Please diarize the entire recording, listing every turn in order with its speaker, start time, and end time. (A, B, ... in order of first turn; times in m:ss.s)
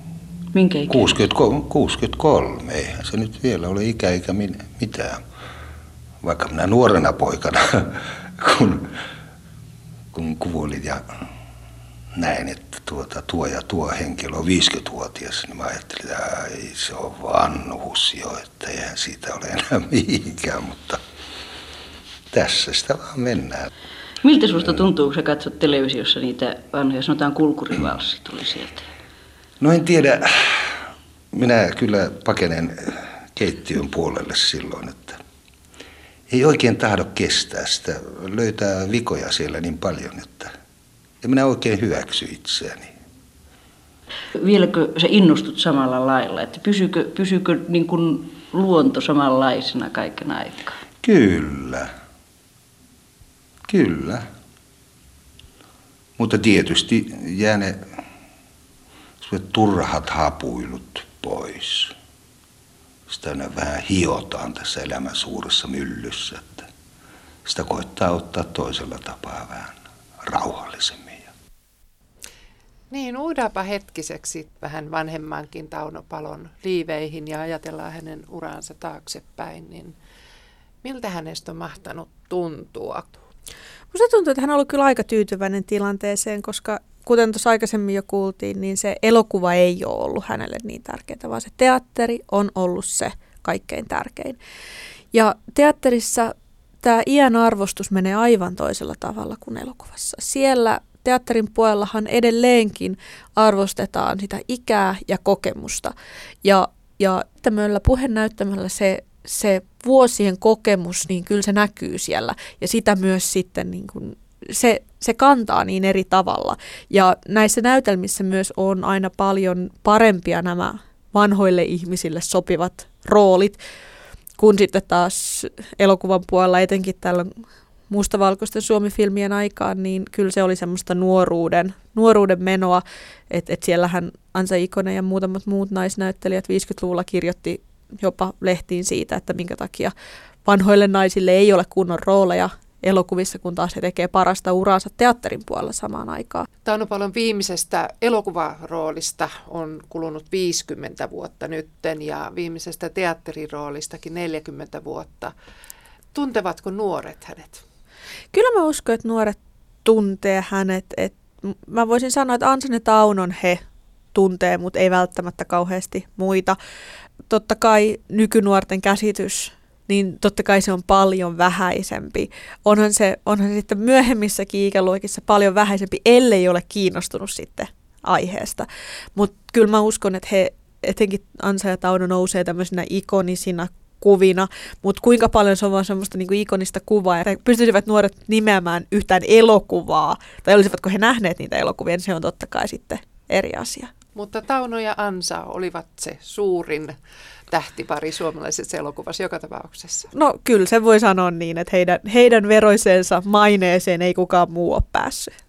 0:00.5-0:01.2 A
0:00.9-0:05.2 B
0:06.2-0:09.0 B
0:10.1-0:11.1 B
0:12.1-0:21.0 B
0:22.3-0:23.7 B
0:24.2-0:28.9 A
0:29.6-0:35.2 B
0:36.3-0:40.5 B
0:41.2-0:42.9 B
0:44.4-0:50.8 A
0:51.0-0:51.9 B
0:53.7-0:54.2 B
0:56.2-0:57.8 B
0:59.2-1:01.9 B
1:03.1-1:06.7 B
1:07.4-1:11.3 B
1:12.9-1:20.0 C
1:20.8-1:23.1 C
1:23.9-1:34.4 D
1:35.1-2:03.6 D
2:04.4-2:19.9 D
2:20.4-2:26.5 D
2:26.6-2:35.3 C
2:36.1-2:37.6 C
2:38.3-2:43.6 D
2:44.1-2:46.6 D
2:47.3-3:13.9 D
3:14.1-3:17.0 C
3:17.5-3:20.1 C
3:20.1-3:25.3 D